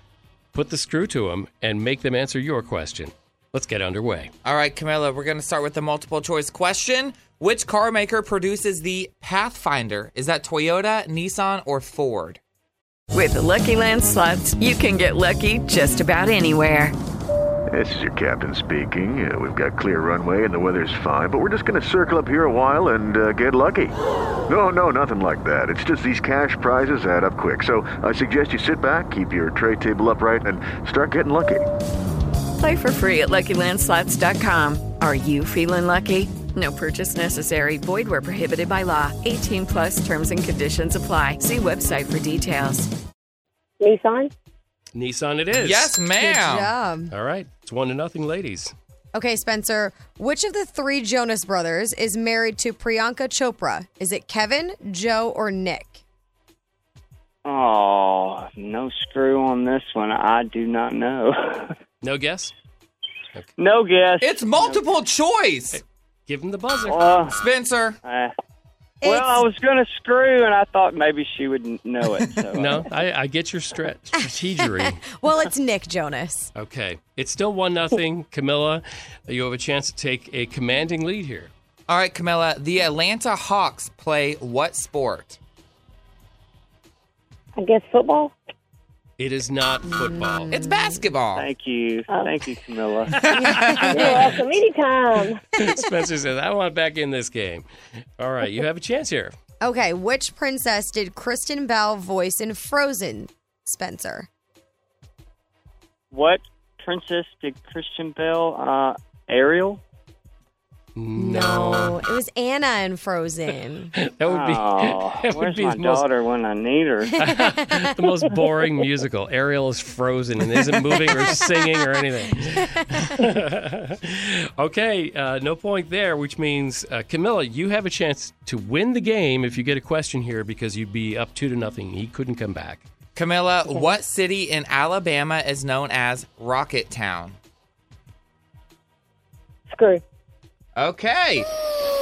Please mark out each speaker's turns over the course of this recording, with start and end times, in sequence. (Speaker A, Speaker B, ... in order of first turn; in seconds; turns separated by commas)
Speaker A: 0.5-4.3, Speaker B: 4.4-12.4, Speaker C: 13.1-16.9, Speaker D: 17.7-23.9, Speaker D: 24.5-31.6, Speaker C: 32.6-42.9, Speaker E: 43.8-44.3, Speaker A: 44.9-46.0, Speaker B: 45.6-46.7, Speaker F: 46.2-47.1, Speaker A: 47.1-48.7, Speaker F: 49.1-56.0, Speaker G: 57.4-61.8, Speaker A: 62.0-62.5, Speaker G: 63.6-64.7, Speaker B: 64.2-65.8, Speaker A: 65.7-67.1, Speaker G: 66.9-67.4, Speaker B: 67.3-68.0, Speaker G: 68.0-68.3, Speaker F: 69.0-69.5, Speaker G: 69.0-72.9, Speaker A: 72.5-75.0, Speaker F: 74.2-76.5, Speaker A: 76.5-81.5, Speaker B: 81.9-85.4, Speaker E: 87.5-88.3, Speaker A: 89.2-90.5, Speaker F: 90.0-90.9, Speaker B: 90.5-91.5, Speaker G: 91.4-93.1, Speaker E: 92.1-92.4, Speaker B: 93.2-94.3, Speaker A: 93.2-94.1, Speaker E: 93.5-95.6, Speaker A: 95.6-97.7, Speaker A: 98.2-99.3, Speaker F: 99.6-104.3, Speaker G: 106.1-109.8, Speaker A: 111.0-112.0, Speaker F: 111.1-113.9, Speaker A: 114.0-116.0, Speaker G: 114.3-117.2, Speaker A: 117.2-132.9, Speaker F: 117.2-117.9, Speaker F: 121.0-121.8, Speaker F: 122.5-123.2, Speaker B: 133.2-137.4, Speaker E: 139.7-140.0, Speaker B: 140.8-141.5